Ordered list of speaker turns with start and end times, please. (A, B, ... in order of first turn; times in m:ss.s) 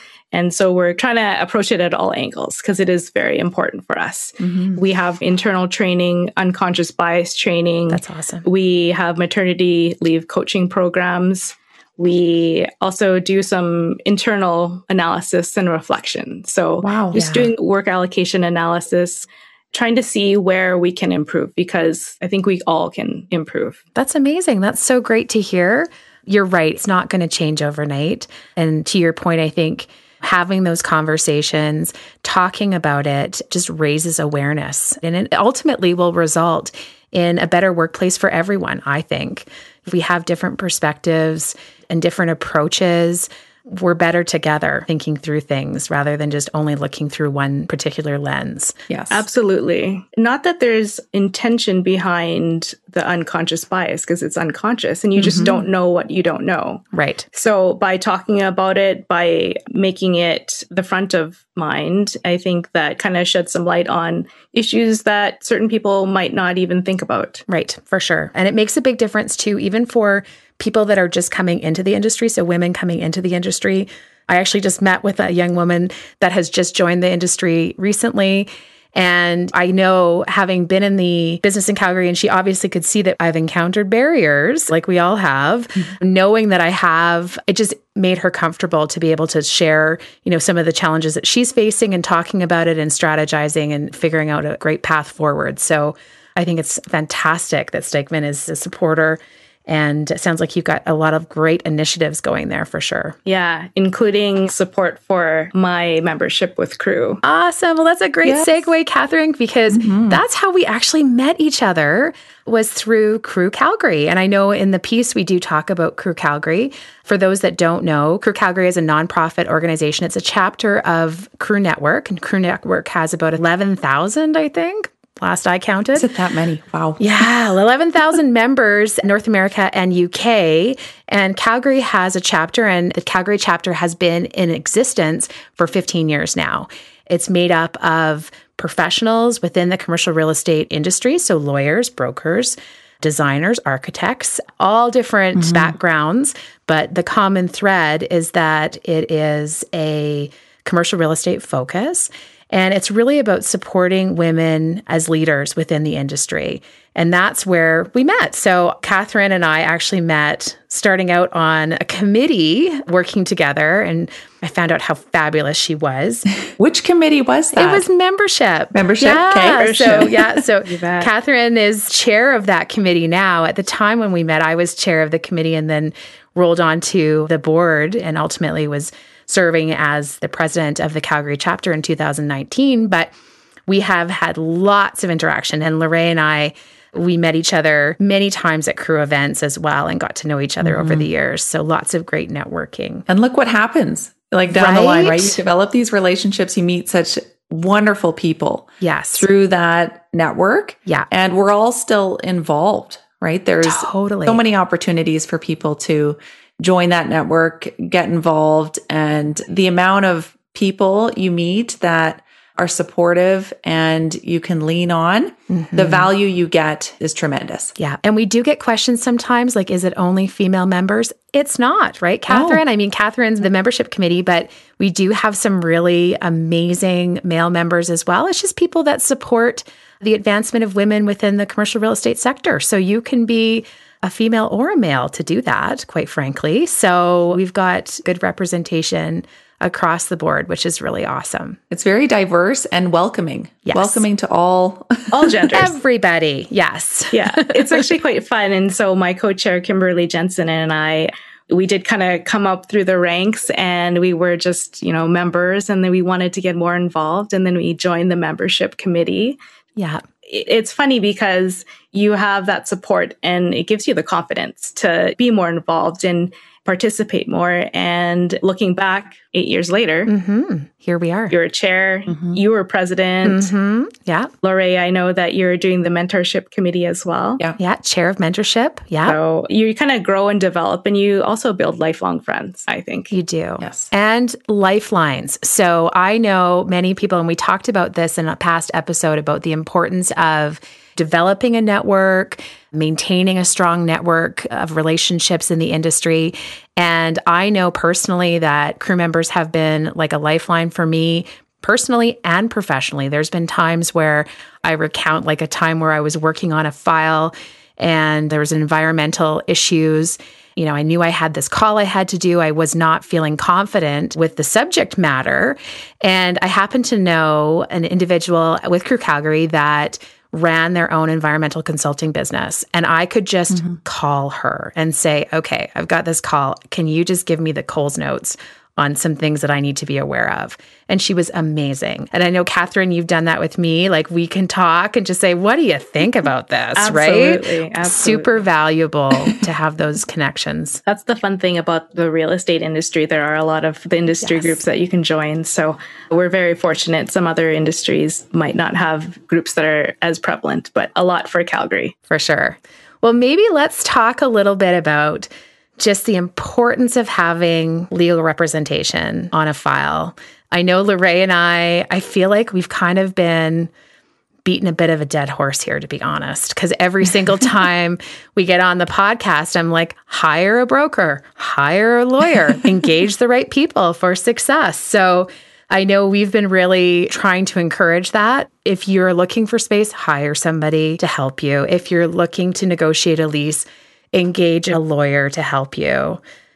0:00.3-0:23.8 A
0:07.9-0:08.4 B
0:16.8-0:17.1 C
0:17.1-0:17.5 B
0:23.9-0:48.7 B
0:48.9-0:49.2 C
0:49.1-1:07.4 A
0:55.2-0:55.5 C
0:56.9-0:57.2 B
1:07.5-1:43.2 B
1:43.2-1:47.2 A
1:47.2-2:06.1 B
1:48.2-1:48.7 C
1:49.7-1:50.2 C
2:05.9-2:07.0 C
2:07.0-2:46.3 B
2:25.4-2:25.7 C
2:46.6-2:47.8 C
2:47.6-3:03.1 B
2:48.7-2:50.2 C
2:49.4-2:51.1 A
3:03.7-3:13.1 B
3:10.6-3:11.0 C
3:13.1-3:37.7 C
3:14.5-3:15.4 B
3:18.8-3:19.3 B
3:23.6-3:24.4 B
3:35.5-3:36.1 B
3:37.8-4:01.6 B
3:42.3-3:42.6 C
4:01.7-4:05.6 C
4:03.6-4:04.0 B
4:05.1-4:05.7 A
4:05.5-4:07.8 B
4:07.1-4:19.4 A
4:19.8-4:20.0 B
4:20.2-4:30.1 A
4:30.1-4:31.3 B
4:31.3-4:33.5 A
4:33.2-4:34.3 B
4:34.4-4:37.4 A
4:37.6-4:39.2 B
4:39.0-4:43.1 A
4:43.1-5:40.8 B
4:43.6-4:43.9 C
5:36.8-5:38.4 A
5:40.8-5:51.9 A
5:44.2-5:44.6 B
5:52.1-6:03.7 B
6:04.4-6:26.2 B